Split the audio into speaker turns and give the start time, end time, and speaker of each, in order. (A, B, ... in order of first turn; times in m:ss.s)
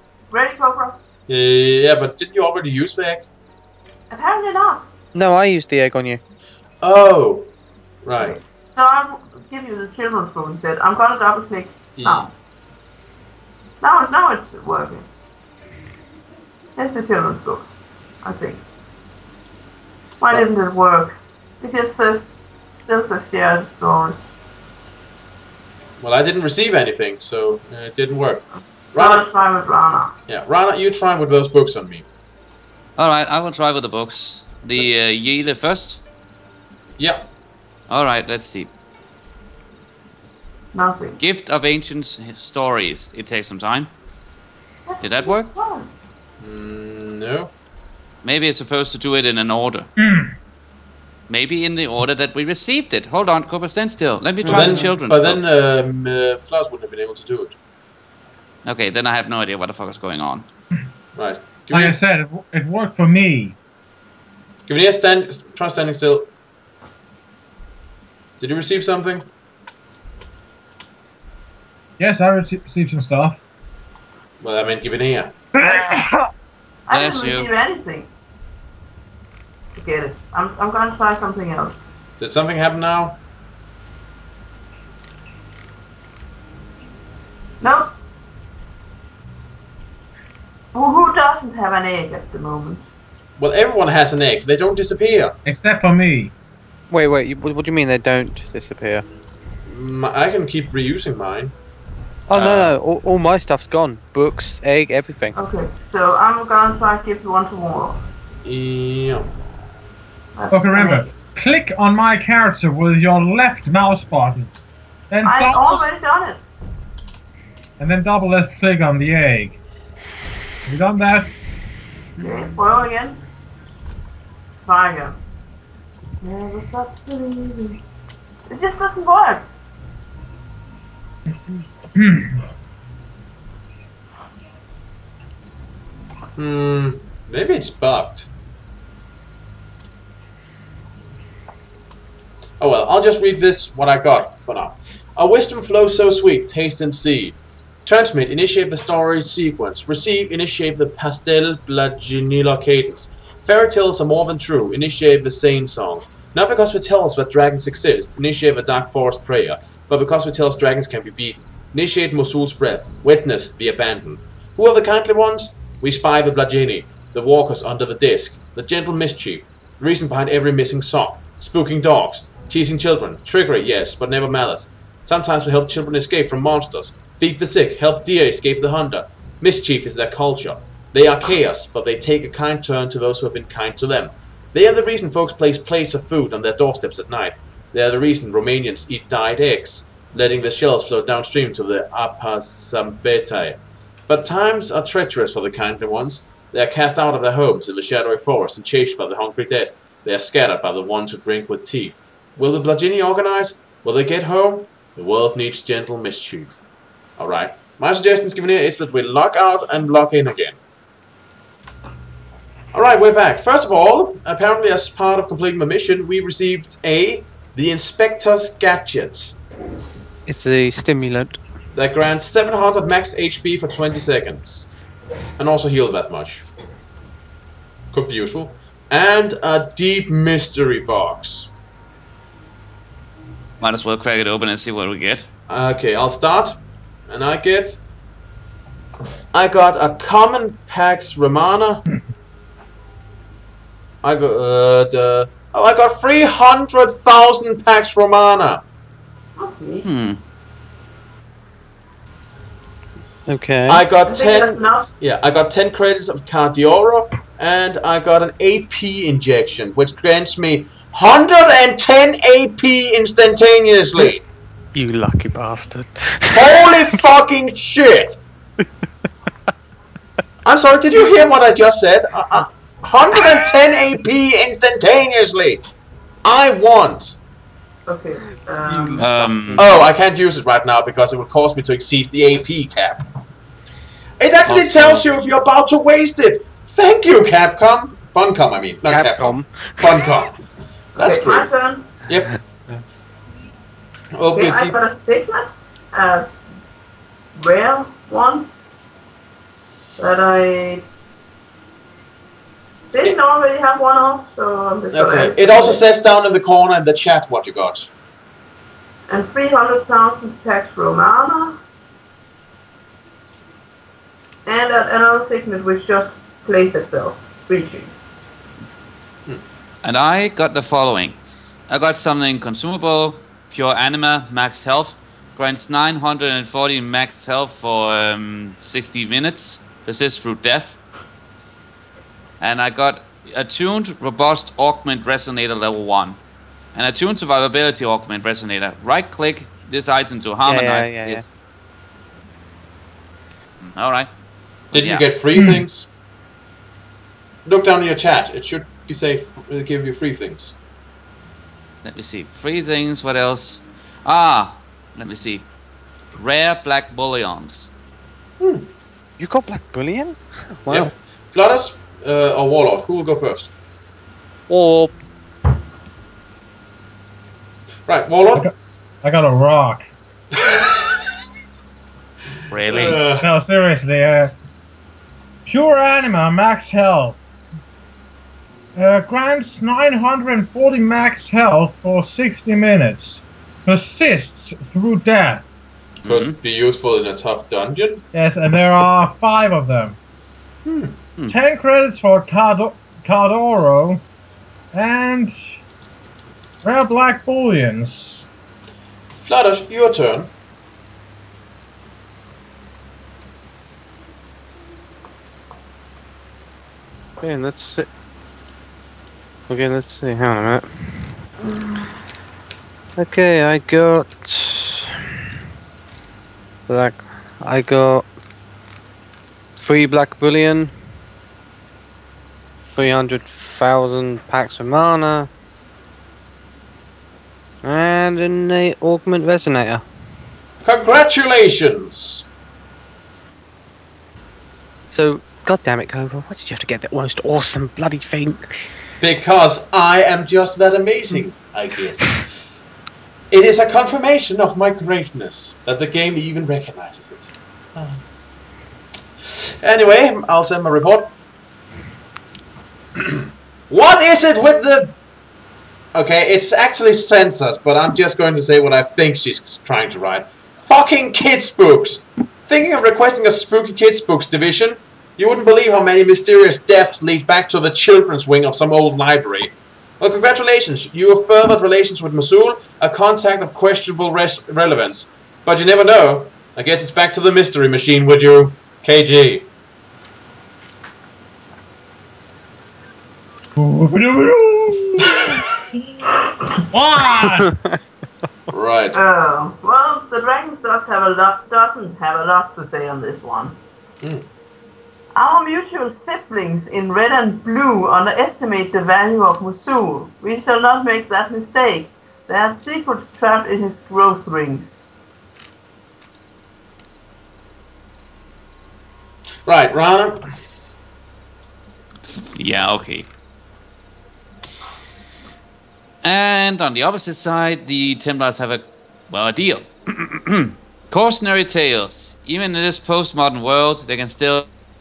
0:00.3-0:01.0 A
0:01.3-0:03.3 B
0:04.1-0:04.9 A
0:05.1-0:06.2 C
0:06.8-0:07.5 B
0:08.0-0:08.3 B
0:08.2-0:12.3 A
0:12.0-0:12.3 B
0:13.8-0:15.1 A
0:16.8-0:17.7 A
0:18.2-0:18.6 A
0:20.2-0:24.2 A
0:26.0-0:29.3 B
0:29.0-0:30.1 A
0:30.3-0:32.0 B
0:33.0-0:36.0 D
0:37.0-0:37.3 B
0:37.9-0:38.7 D
0:40.7-0:41.2 A
0:41.2-0:43.9 D
0:44.9-0:45.9 A
0:45.0-0:45.5 D
0:46.4-0:47.5 B
0:48.2-0:49.9 D
0:50.0-0:50.3 E
0:51.3-0:55.4 D
0:54.4-0:54.9 C
0:54.4-0:57.6 B
0:58.6-1:00.5 D
1:01.2-1:02.0 B
1:01.7-1:03.6 E
1:04.7-1:06.3 B
1:08.4-1:09.3 B
1:12.0-1:13.4 E
1:14.4-1:15.3 B
1:15.5-1:16.3 E
1:16.9-1:18.1 A
1:16.9-1:17.5 D
1:19.8-1:21.9 A
1:22.2-1:23.2 B
1:27.6-1:27.9 A
1:30.7-1:32.8 A
1:33.4-1:35.4 B
1:35.4-1:36.3 E
1:36.9-1:39.0 C
1:39.7-1:41.5 B
1:42.3-1:45.4 C
1:42.4-1:42.7 D
1:42.4-1:42.7 B
1:45.3-1:48.0 A
1:48.4-1:49.3 B
1:50.3-1:51.1 A
1:50.5-1:54.5 E
1:55.1-1:55.8 E
1:55.2-1:56.5 A
1:57.8-1:59.6 E
2:00.6-2:01.3 E
2:02.2-2:03.2 A
2:04.6-2:05.2 A
2:06.2-2:07.8 A
2:08.5-2:09.4 A
2:11.9-2:12.4 E
2:16.4-2:18.3 B
2:22.6-3:26.6 B
3:27.2-3:30.6 B
3:32.7-3:39.4 B
3:40.3-3:41.4 C
3:41.7-3:44.7 B
3:45.4-3:46.4 B
3:47.9-3:51.5 B
3:53.6-3:55.3 D
3:55.5-3:56.6 B
3:57.1-3:57.8 B
3:59.3-4:01.8 B
4:04.0-4:08.6 B
4:09.4-4:09.9 A
4:09.8-4:10.2 D
4:13.3-4:13.8 C
4:13.7-4:24.2 B
4:14.0-4:14.8 A
4:24.7-4:27.0 C
4:26.3-4:28.2 B
4:30.4-4:35.6 B
4:36.2-4:37.2 B
4:37.9-4:39.1 A
4:38.6-4:39.9 C
4:39.0-4:39.6 D
4:39.6-4:43.0 B
4:44.2-4:50.4 B
4:44.4-4:45.1 D
4:48.9-4:49.7 C
4:51.0-4:51.5 B
4:51.0-4:51.9 A
4:52.0-4:52.3 B
4:54.1-4:54.8 B
4:54.3-4:56.3 A
4:57.4-4:58.5 A
5:00.0-5:00.8 A
5:02.9-5:05.8 A
5:04.9-5:07.9 B
5:09.1-5:11.6 A
5:14.4-5:17.9 A
5:19.8-5:21.2 D
5:21.7-5:30.8 D
5:32.4-5:36.2 D
5:36.7-5:41.2 D
5:40.4-5:41.3 C
5:43.6-5:44.1 D
5:44.7-5:45.9 B
5:44.7-5:45.1 D
5:45.3-5:45.6 E
5:47.4-5:50.6 B
5:51.8-5:55.5 D
5:56.1-5:57.7 D
5:58.4-5:58.7 B
5:59.2-6:00.9 C
6:00.7-6:03.5 B
6:04.5-6:04.9 C
6:07.9-6:08.4 B
6:08.3-6:09.9 E
6:10.4-6:10.9 B
6:12.5-6:13.0 D
6:12.6-6:13.3 B
6:13.1-6:14.3 E
6:15.4-6:17.2 E
6:18.7-6:25.4 E
6:26.0-6:26.3 D
6:26.0-6:28.0 B
6:28.1-6:30.0 E
6:30.6-6:30.9 B
6:31.3-6:34.0 E
6:34.7-6:35.6 E
6:36.6-6:38.2 E
6:39.2-6:40.3 B
6:47.2-6:47.9 C
6:49.5-6:51.0 C
6:51.4-6:51.8 A
6:53.0-6:55.0 C
6:56.7-6:58.1 C
6:59.6-7:00.7 C
7:02.7-7:05.3 C
7:07.6-7:09.8 C
7:10.6-7:12.3 B
7:14.9-7:18.6 C
7:19.0-7:22.3 B
7:23.3-7:28.0 B
7:29.2-7:31.1 B
7:33.7-7:34.9 B
7:35.9-7:59.4 B
8:03.6-8:06.1 E
8:06.7-8:07.5 E
8:08.5-8:09.0 B
8:08.9-8:13.6 A
8:15.1-8:24.8 A
8:29.4-8:30.2 B
8:32.1-8:33.1 D
8:36.0-8:44.5 D